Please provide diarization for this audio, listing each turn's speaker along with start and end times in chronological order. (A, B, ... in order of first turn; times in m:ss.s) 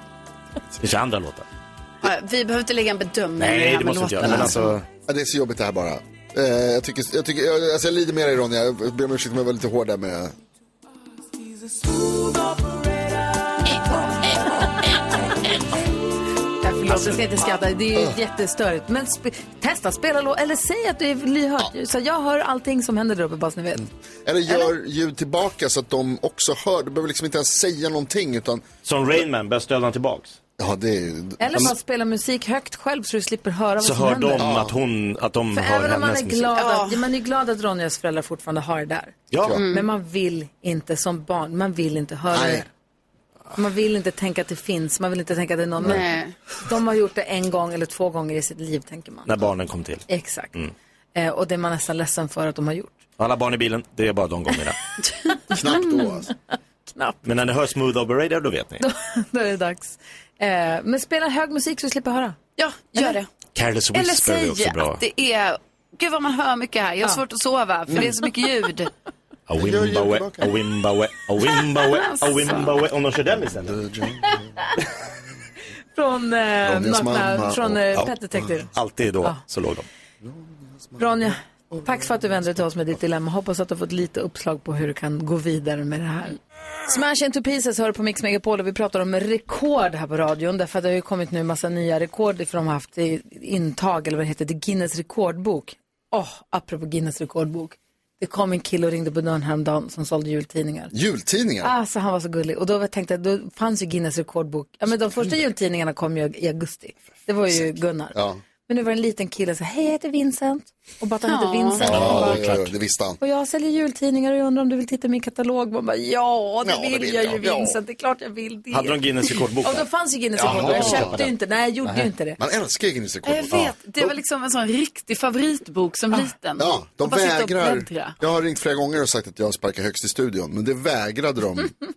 0:00.8-0:01.4 A
0:02.0-0:04.6 B
0:03.4-0:04.9 A
0:04.2-0:10.3 C
0:16.6-0:23.8 D
0:23.8-0:28.6 C
0:28.8-0:30.4 A
0:30.6-0:31.7 C
0:31.4-0:34.5 D
0:33.8-0:36.5 A
0:34.4-0:34.8 C
0:35.5-0:42.7 D
0:36.6-0:37.0 B
0:39.3-0:39.6 A
0:39.5-0:39.9 B
0:42.3-0:42.6 C
0:43.5-0:46.1 D
0:45.8-0:46.3 B
0:46.6-0:49.3 D
0:49.2-0:50.7 A
0:50.1-0:50.6 D
0:51.1-0:53.0 D
0:53.2-0:54.8 A
0:55.5-0:56.3 C
0:56.9-0:57.2 D
0:57.2-0:58.8 A
0:58.8-1:02.4 D
1:02.6-1:03.3 B
1:03.5-1:05.0 A
1:03.9-1:08.9 B
1:09.5-1:13.8 A
1:09.6-1:10.5 C
1:11.7-1:12.8 B
1:13.6-1:14.7 C
1:15.9-1:18.7 D
1:16.6-1:18.1 C
1:18.7-1:19.8 A
1:20.2-1:22.2 C
1:21.0-1:40.9 D
1:40.9-1:41.7 C
1:41.6-1:52.4 D
1:47.5-1:48.4 C
1:51.2-1:52.2 B
1:51.8-1:53.2 C
1:51.8-1:52.7 A
1:53.2-1:59.0 D
1:56.6-1:57.8 C
1:58.7-1:59.8 A
1:59.6-2:02.4 D
2:00.4-2:01.3 C
2:00.4-2:01.3 A
2:02.4-2:04.1 C
2:03.2-2:08.2 B
2:06.6-2:11.7 C